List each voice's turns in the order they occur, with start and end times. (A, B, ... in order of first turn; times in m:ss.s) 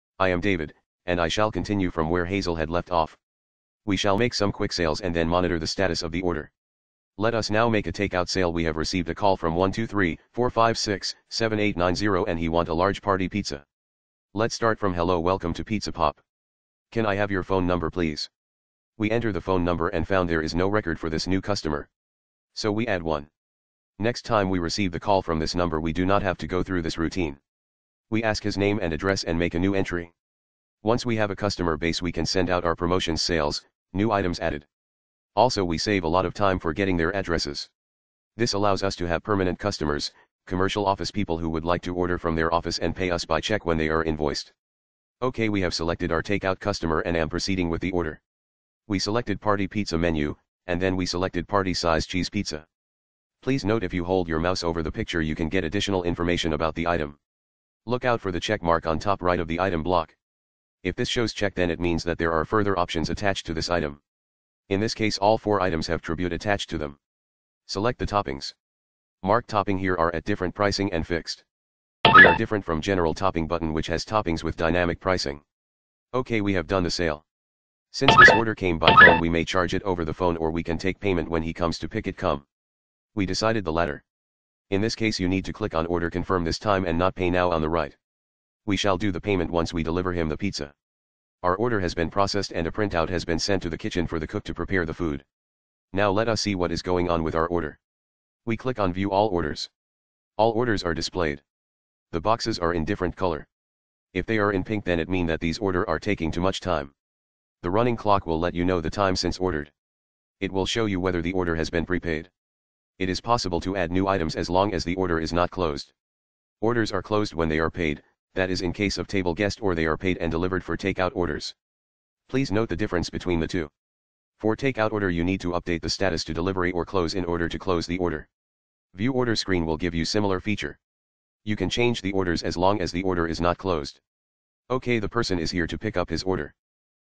0:00.2-0:03.2 A
0:03.8-0:06.5 A
0:07.2-0:13.6 A
0:14.3-0:16.2 A
0:16.9-0:18.3 A
0:19.0-0:21.9 A
0:22.5-0:23.3 A
0:24.0-0:27.4 A
0:28.1-0:30.1 A
0:30.8-0:34.7 A
0:35.4-0:37.7 A
0:38.4-0:44.5 A
0:45.2-0:48.2 A
0:48.9-0:52.7 A
0:53.4-0:57.2 A
0:57.9-1:00.2 A
1:00.8-1:04.0 A
1:04.7-1:07.0 A
1:07.7-1:08.6 A
1:09.2-1:11.4 A
1:12.1-1:15.4 A
1:16.1-1:17.2 A
1:17.9-1:22.5 A
1:23.2-1:24.0 A
1:24.7-1:28.0 A
1:28.7-1:30.7 A
1:31.4-1:35.2 A
1:35.9-1:37.8 A
1:38.4-1:39.7 A
1:40.4-1:41.4 A
1:42.1-1:43.5 A
1:44.1-1:46.9 A
1:47.6-1:49.7 A
1:50.4-1:52.3 A
1:53.0-1:55.9 A
1:56.6-2:01.6 A
2:02.3-2:03.7 A
2:04.4-2:08.3 A
2:08.9-2:10.8 A
2:11.4-2:14.0 A
2:14.7-2:16.5 A